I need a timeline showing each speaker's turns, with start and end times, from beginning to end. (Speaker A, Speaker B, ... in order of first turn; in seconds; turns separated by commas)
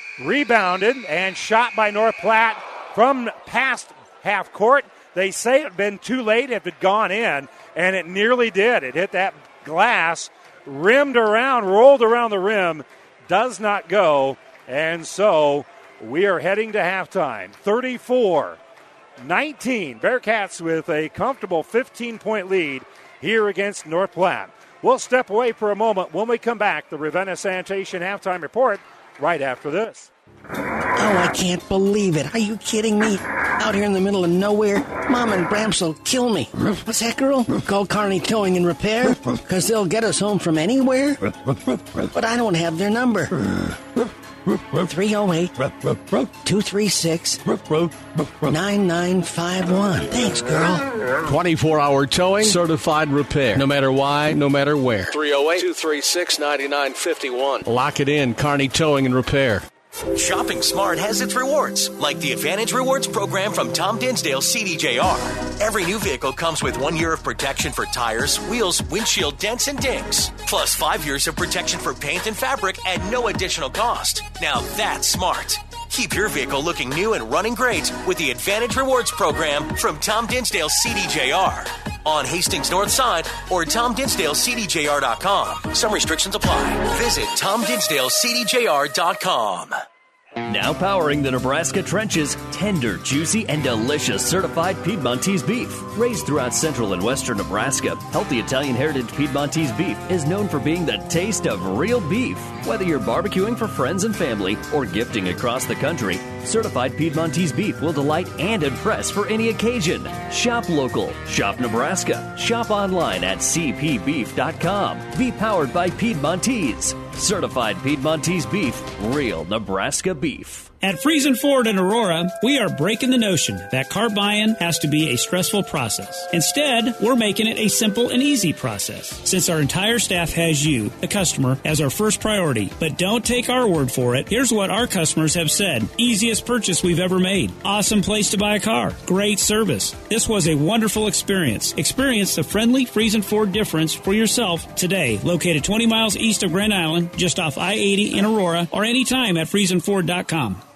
Speaker A: 0.2-18.6, Speaker A: 19.2-30.1, Speaker B: 30.9-41.5, Speaker B: 42.0-43.8, Speaker B: 44.7-47.6, Speaker B: 48.4-50.9, Speaker C: 51.2-55.2, Speaker D: 55.1-57.6, Speaker C: 57.6-59.6, Speaker E: 60.1-89.8, Speaker F: 90.4-120.7, Speaker G: 120.8-150.6